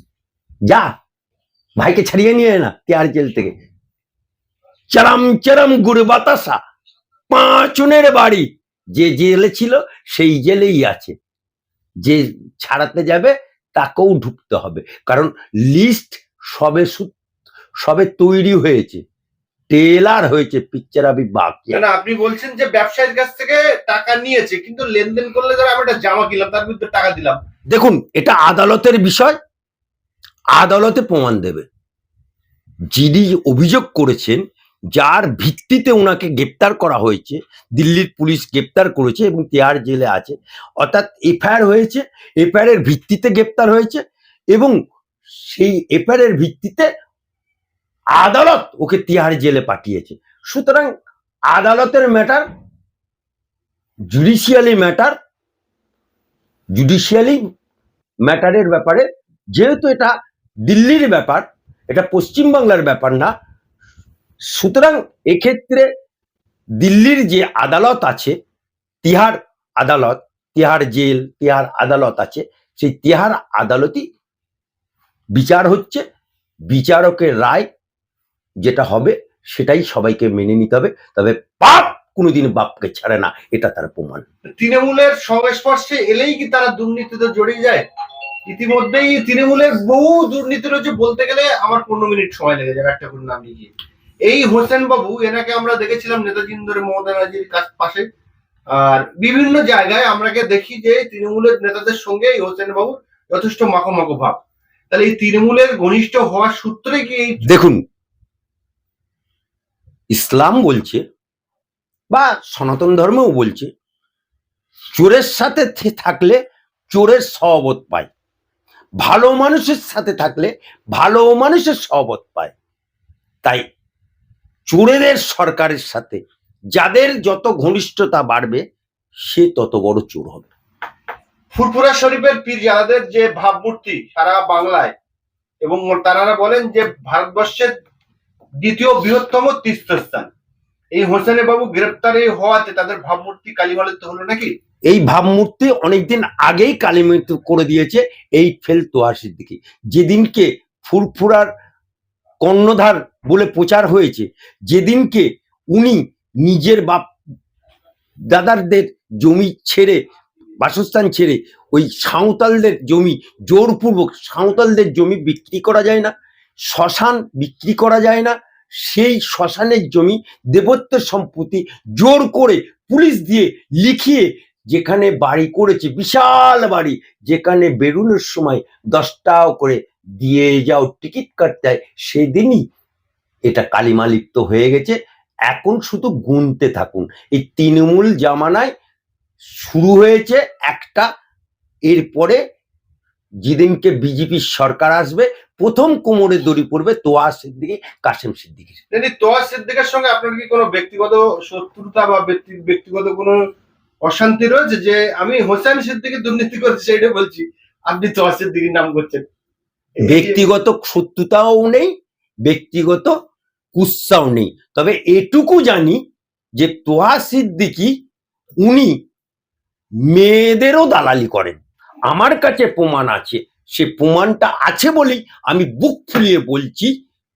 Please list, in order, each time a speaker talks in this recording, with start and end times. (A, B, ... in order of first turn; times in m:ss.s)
0:01.8-0:03.5 A
0:04.9-0:06.6 A
0:07.3-0:11.1 A
0:12.0-0:17.1 A
0:17.8-0:19.0 A
0:19.7-0:21.8 A
0:21.7-0:27.4 B
0:27.7-0:29.4 A
0:30.6-0:31.7 A
0:32.9-0:34.4 A
0:34.9-0:44.7 A
0:45.5-0:46.9 A
0:48.2-0:50.9 A
0:51.5-0:52.4 A
0:54.1-0:55.1 A
0:56.7-0:57.4 A
0:58.2-1:00.1 A
1:00.7-1:03.3 A
1:04.5-1:05.9 A
1:06.8-1:08.3 A
1:09.0-1:14.0 A
1:15.4-1:16.0 A
1:16.7-1:17.7 A
1:18.6-1:24.2 A
1:24.6-1:27.8 B
1:28.5-1:33.7 B
1:34.3-1:38.0 B
1:38.7-1:47.4 B
1:47.4-1:47.8 A
1:50.1-1:51.0 A
1:52.1-1:53.7 A
1:54.9-1:56.4 A
1:56.9-1:58.1 A
1:59.0-2:02.5 A
2:04.7-2:06.2 A
2:06.7-2:08.6 A
2:09.2-2:10.5 A
2:11.5-2:15.0 B
2:15.6-2:17.7 B
2:18.6-2:20.3 B
2:21.0-2:24.5 B
2:24.9-2:31.5 A
2:32.4-2:37.1 A
2:38.3-2:40.0 A
2:40.6-2:46.1 A
2:46.7-3:02.6 A
3:03.5-3:05.0 A
3:05.5-3:08.7 A
3:09.6-3:11.1 A
3:11.9-3:12.4 A
3:13.4-3:18.8 A
3:18.9-3:23.4 B
3:24.0-3:29.2 B
3:30.0-3:30.4 B
3:30.0-3:31.9 A
3:32.4-3:33.1 A
3:33.7-3:36.0 A
3:36.6-3:37.9 A
3:38.6-3:39.0 A
3:40.1-3:46.9 A